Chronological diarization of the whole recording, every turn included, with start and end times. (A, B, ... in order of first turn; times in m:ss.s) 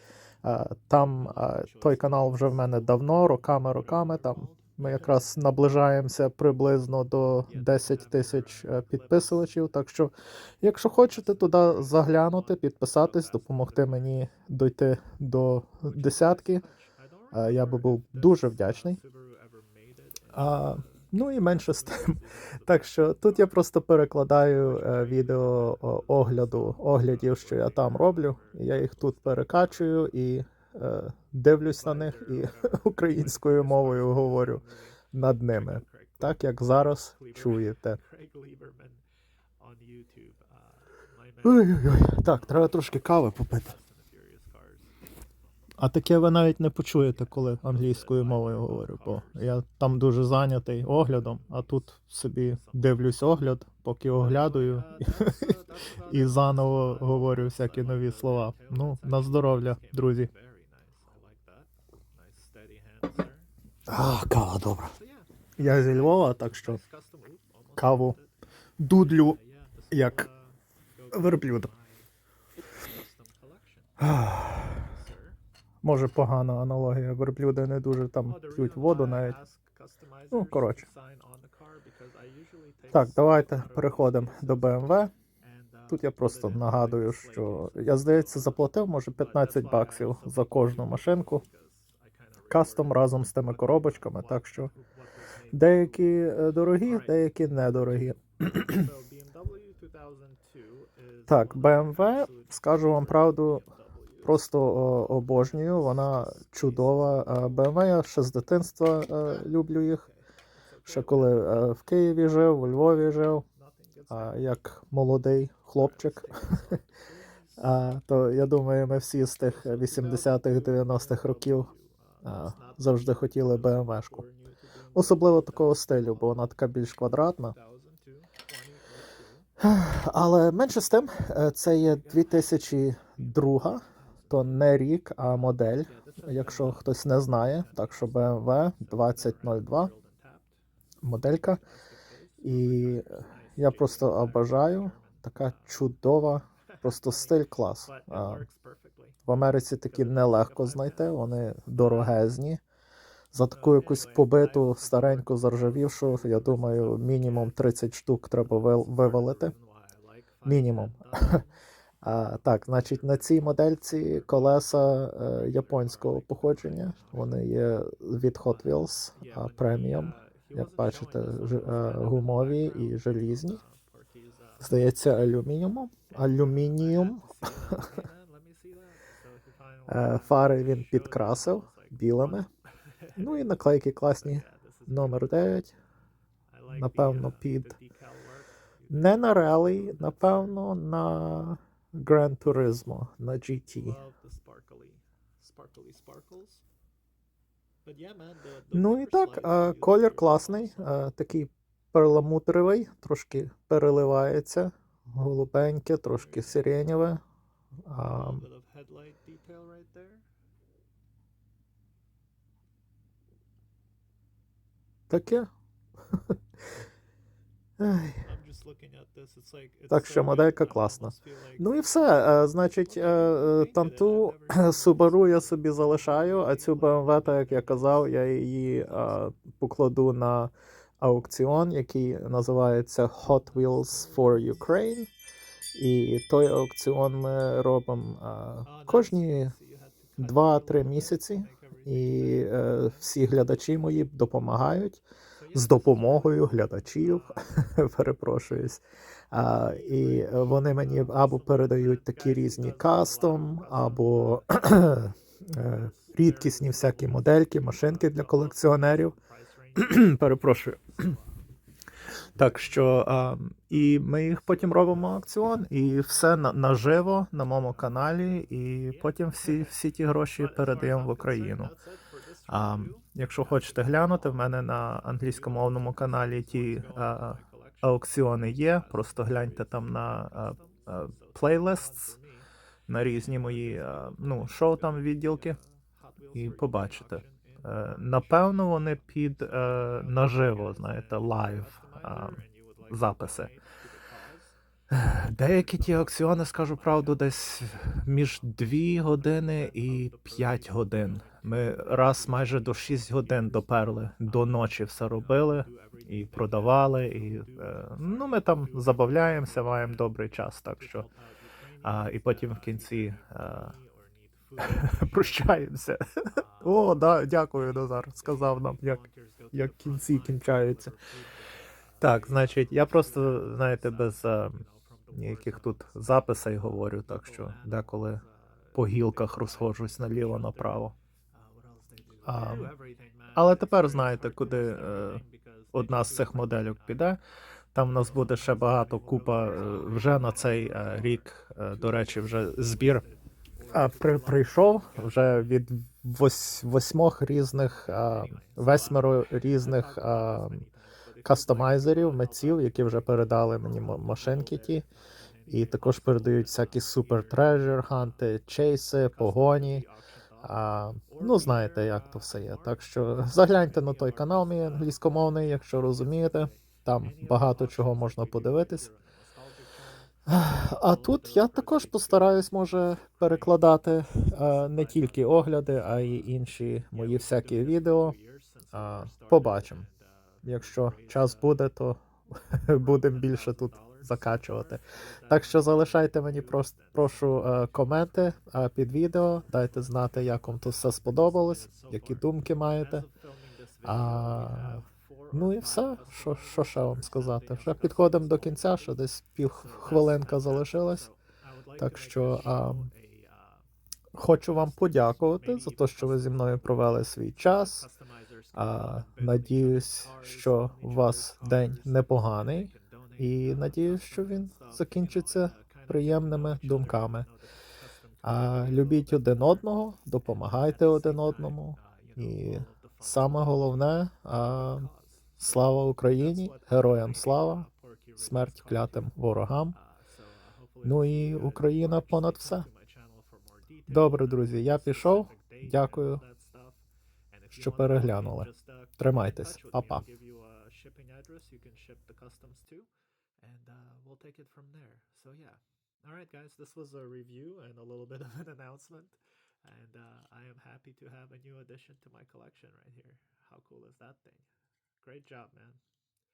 0:00.4-0:16.6 A
0:01.8-0:02.3 B
0:03.8-0:04.8 B
0:07.6-0:08.5 B
0:16.1-0:17.3 B
0:17.3-0:19.0 A
0:19.0-0:20.3 B
0:20.3-0:38.0 A
0:24.8-0:25.4 B
0:27.1-0:27.9 B
0:31.9-0:32.7 B
0:33.4-0:34.7 B
0:38.0-0:39.0 B
0:39.6-0:40.5 B
0:41.4-0:43.8 A
0:43.8-0:44.9 B
0:45.8-1:00.3 A
0:47.9-0:49.0 B
0:54.3-0:59.3 B
1:00.3-1:01.7 B
1:02.2-1:03.5 B
1:03.9-1:05.0 A
1:05.0-1:05.3 B
1:05.6-1:06.8 A
1:06.7-1:08.2 B
1:07.8-1:08.2 A
1:08.8-1:09.4 A
1:09.4-1:10.5 B
1:09.9-1:10.3 A
1:11.1-1:12.0 B
1:11.1-1:11.7 A
1:12.9-1:13.8 B
1:14.0-1:14.9 A
1:15.1-1:15.4 B
1:15.8-1:19.4 A
1:18.3-1:24.6 B
1:20.3-1:20.9 A
1:22.9-1:25.1 A
1:25.5-1:27.9 B
1:25.9-1:31.4 A
1:29.3-1:31.7 B
1:32.5-1:34.7 A
1:33.6-1:34.3 B
1:35.5-1:38.9 A
1:38.9-1:42.5 B
1:41.3-1:43.7 A
1:43.7-1:44.3 B
1:44.2-1:50.1 A
1:50.7-1:51.2 B
1:50.9-1:53.4 A
1:54.1-1:56.8 A
1:56.0-1:57.3 B
1:57.6-2:01.7 A
1:59.6-2:02.8 B
2:02.2-2:04.3 A
2:04.3-2:05.0 B
2:04.9-2:07.6 A
2:07.6-2:09.4 B
2:09.6-2:19.9 A
2:16.0-2:16.6 B
2:19.9-2:20.4 B
2:21.0-2:21.6 A
2:22.4-2:28.5 A
2:22.6-2:24.4 B
2:29.2-2:32.6 A
2:30.7-2:31.0 B
2:33.3-2:39.5 A
2:33.6-2:35.2 B
2:36.1-2:37.1 B
2:39.0-2:40.6 B
2:40.4-2:41.4 A
2:42.0-2:53.6 A
2:45.6-2:46.3 B
2:49.2-2:53.0 B
2:53.6-2:54.6 B
2:54.6-2:58.0 A
2:56.8-3:00.0 B
2:59.9-3:02.5 A
3:00.9-3:01.8 B
3:03.2-3:05.7 A
3:04.4-3:05.1 B
3:06.6-3:07.4 B
3:06.7-3:07.8 A
3:08.2-3:08.4 B
3:08.9-3:14.0 A
3:13.8-3:16.6 B
3:17.9-3:20.7 B
3:18.7-3:27.2 A
3:27.9-3:28.4 A
3:28.2-3:30.2 B
3:35.1-3:35.5 A
3:37.8-3:38.3 A
3:38.3-3:41.6 B
3:39.9-3:55.1 A
3:43.8-3:45.1 B
3:46.6-3:47.6 B
3:55.8-3:59.5 A
3:58.7-4:02.3 B
4:00.2-4:05.0 A
4:05.4-4:06.0 B
4:05.5-4:19.2 A
4:10.0-4:11.3 B
4:11.9-4:14.3 B
4:17.9-4:18.6 B
4:19.7-4:21.2 A
4:22.4-4:31.8 A
4:30.5-4:31.8 B
4:32.5-4:42.2 A
4:36.2-4:37.8 B
4:38.9-4:39.6 B
4:42.1-4:42.4 B
4:42.9-4:45.6 A
4:43.4-4:44.8 B
4:46.2-4:47.6 B
4:46.3-4:53.5 A
4:50.4-4:52.9 B
4:53.5-4:54.5 B
4:54.9-5:11.1 A
4:59.6-5:01.5 B
5:05.7-5:06.7 B
5:07.5-5:08.0 B
5:11.8-5:13.0 B
5:11.8-5:13.8 A
5:13.7-5:14.6 B
5:14.6-5:16.0 A
5:16.6-5:21.0 A
5:19.1-5:20.4 B
5:21.0-5:21.4 B
5:22.0-5:24.0 B
5:22.0-5:28.2 A
5:24.7-5:25.5 B
5:27.3-5:27.6 B
5:28.7-5:30.9 A
5:30.2-5:30.6 B
5:31.3-5:36.4 B
5:32.3-5:32.7 A
5:33.3-5:37.2 A
5:37.8-5:43.0 A
5:38.9-5:41.0 B
5:41.9-5:44.5 B
5:43.7-5:50.6 A
5:48.5-5:49.0 B
5:49.8-5:52.3 B
5:51.2-5:54.9 A
5:55.5-5:59.9 A
5:59.2-6:00.4 B
6:00.4-6:08.9 A
6:01.1-6:01.4 B
6:03.9-6:04.4 B
6:07.2-6:10.0 B
6:10.3-6:18.2 A
6:11.1-6:12.1 B
6:14.7-6:15.2 B
6:17.0-6:19.9 B
6:18.7-6:19.9 A
6:20.4-6:33.1 A
6:31.7-6:32.2 B
6:33.8-6:38.5 B
6:33.8-6:41.1 A
6:39.7-6:40.6 B
6:41.7-6:43.4 B
6:41.8-6:42.9 A
6:44.2-6:47.9 A
6:45.6-6:46.0 B
6:48.5-6:57.3 A
6:49.2-6:52.0 B
6:52.7-6:57.1 B
6:58.2-6:59.1 B
6:58.2-7:09.8 A
7:01.0-7:01.5 B
7:02.1-7:03.0 B
7:10.2-7:13.1 B
7:10.8-7:12.7 A
7:13.9-7:16.2 A
7:15.3-7:15.7 B
7:16.2-7:16.7 B
7:17.4-7:18.5 B
7:17.5-7:20.0 A
7:19.6-7:22.9 B
7:23.4-7:34.4 B
7:35.0-7:35.8 B